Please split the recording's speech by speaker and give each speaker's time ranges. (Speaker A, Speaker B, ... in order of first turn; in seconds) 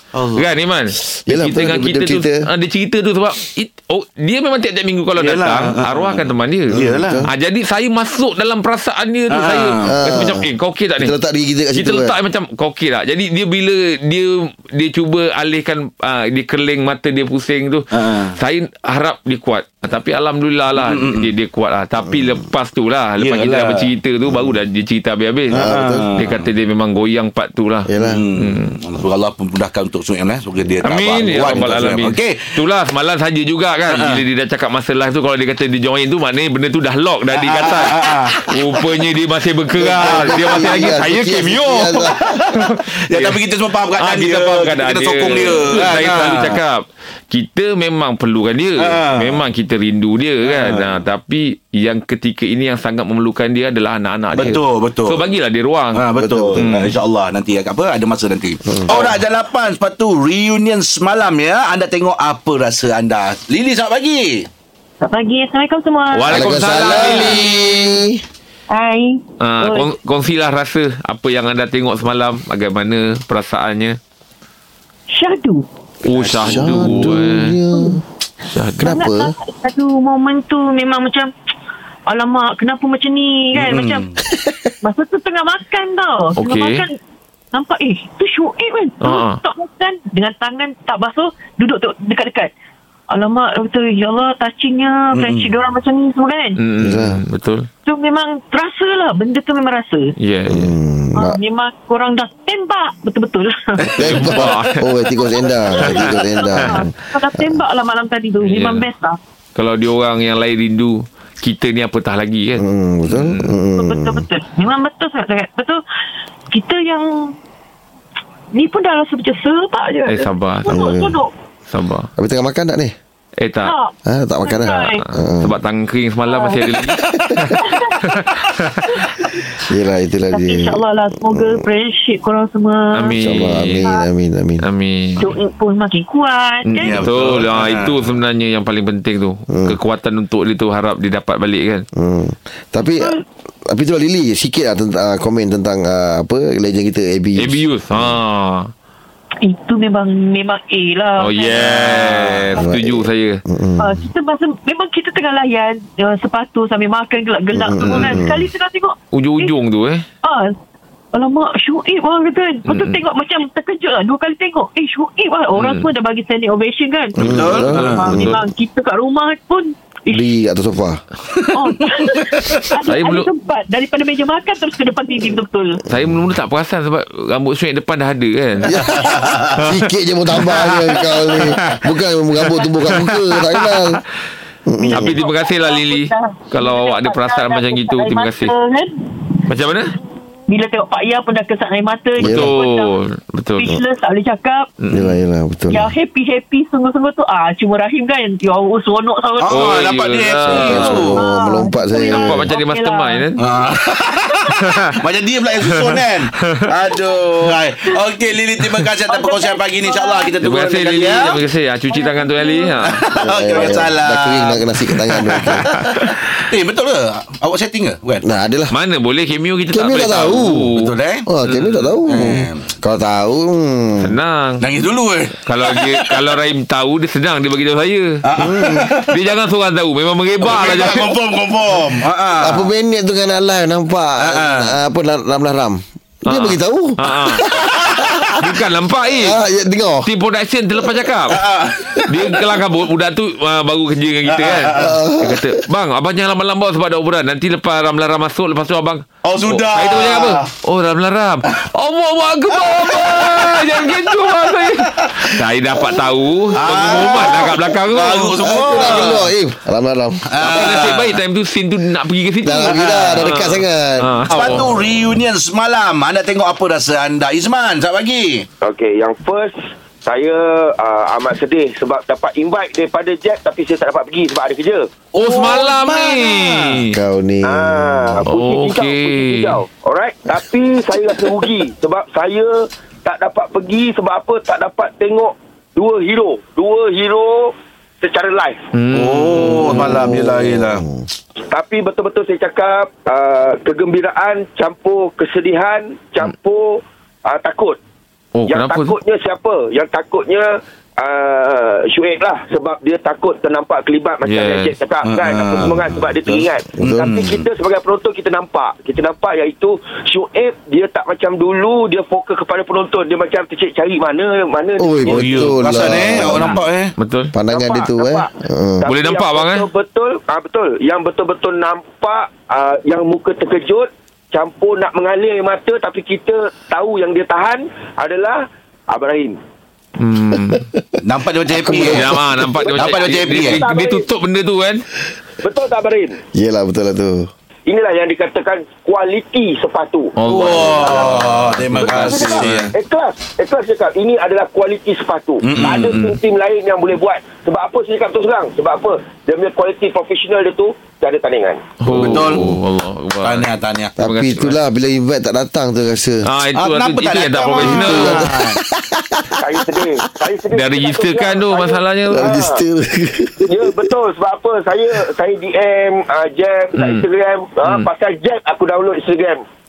Speaker A: 0.1-0.5, 5.2-7.3, 9.3-10.0, 17.9-18.4, 20.7-21.3, 23.2-23.9, 25.5-26.5, 28.0-32.6, 33.9-34.2, 37.3-38.5, 40.0-40.7, 42.1-46.6, 48.8-49.4, 50.4-51.0, 54.3-55.2, 55.9-64.5, 76.1-77.0, 83.5-84.2, 95.1-95.5, 103.8-104.6, 136.8-138.0, 151.6-152.5, 167.2-168.2, 171.3-171.6, 178.8-179.7, 199.4-201.1, 203.4-211.4, 212.8-218.2, 220.7-221.3, 222.0-222.7, 224.6-226.3, 228.2-229.1, 230.4-232.7, 234.2-234.8, 241.3-242.5, 244.2-244.9, 249.2-250.5, 252.6-255.3, 256.5-259.3, 260.2-261.2, 262.6-263.4, 264.3-268.5, 275.1-276.8, 288.9-290.8, 305.0-307.4, 315.0-316.9, 331.0-333.6, 340.2-342.7, 345.4-346.0, 351.9-352.6, 353.2-354.0, 356.5-358.6
Speaker B: 0.3-11.1, 11.7-28.7, 30.8-43.4, 44.0-56.0, 56.6-56.9, 66.1-67.5, 69.4-74.0, 76.0-77.6, 78.5-79.0, 86.4-86.8, 89.0-89.4, 96.6-97.7, 100.2-100.7, 104.0-105.0, 105.8-106.8, 108.4-108.9, 109.5-113.5, 120.1-120.9, 121.7-122.1, 123.4-123.7, 125.1-129.0, 132.9-133.9, 134.6-135.3, 136.6-141.9, 147.4-148.7, 151.2-153.4, 157.8-158.2, 159.1-160.0, 162.7-163.0, 165.5-165.9, 167.7-168.4, 172.8-173.3, 175.9-181.8, 182.9-183.8, 184.9-188.5, 189.5-189.9, 192.2-193.8, 194.8-195.2, 199.5-201.1, 202.1-203.4, 204.7-204.9, 205.7-206.7, 210.4-213.1, 218.7-220.9, 224.0-224.7, 225.4-231.2, 236.2-237.5, 238.4-239.4, 240.0-241.4, 242.0-259.2, 260.4-264.7, 275.2-276.9, 278.3-279.6, 288.7-290.1, 298.4-298.9, 304.2-304.7, 316.2-317.3, 318.9-319.6, 330.0-330.7, 331.6-334.8, 340.2-342.7, 345.7-346.2, 351.8-354.6, 356.2-358.3, 360.5-362.4, 366.8-367.1
Speaker C: 1.2-2.4, 6.7-7.3, 9.8-10.5, 11.0-12.1, 25.5-26.1, 27.9-28.2, 39.8-42.2, 56.2-56.6, 58.7-59.1, 66.3-68.2, 76.4-78.0, 78.8-79.3, 96.8-97.2, 100.5-101.4, 104.0-107.4, 112.6-114.2, 120.7-121.2, 122.2-122.9, 124.0-125.5, 129.7-131.6, 133.2-134.6, 139.5-139.8, 141.9-143.1, 143.7-148.1, 152.6-154.0, 157.5-158.5, 167.2-168.2, 170.1-171.0, 178.6-184.0, 184.7-185.1, 192.2-192.5, 194.9-195.9, 200.5-202.5, 213.2-215.8, 218.2-218.7, 219.7-220.7, 221.2-224.1, 228.4-228.9, 232.4-238.4, 239.1-240.1, 244.8-245.6, 258.4-260.2, 262.4-264.1, 276.9-278.2, 289.7-291.0, 306.8-307.1, 314.8-316.6, 317.3-318.9, 330.5-330.8, 331.6-332.4, 336.3-337.3, 354.0-356.3, 357.6-359.6, 362.1-363.8
Speaker D: 65.0-66.7, 68.7-69.9, 75.1-75.7, 77.7-78.0, 78.8-81.3, 82.1-84.1, 84.8-87.0, 87.5-92.5, 93.1-96.6, 97.8-100.1, 101.1-103.9, 105.7-109.2, 113.8-115.8, 116.5-117.1, 118.5-121.3, 123.6-125.0, 126.2-126.8, 127.5-128.1, 128.9-129.4, 130.3-133.2, 133.8-134.1, 135.2-137.0, 143.0-143.2, 149.4-151.7, 153.8-159.5, 160.2-160.6, 161.1-170.3, 171.5-175.8, 184.8-189.0, 190.5-192.9, 193.6-194.7, 195.7-199.8, 201.0-203.3, 209.0-210.4, 211.9-212.8
Speaker E: 268.6-274.9, 277.4-288.7, 291.5-297.8, 298.5-315.6, 317.5-318.3, 318.8-329.4, 332.7-334.1, 335.4-336.2, 337.7-351.7, 359.4-362.6, 363.4-369.4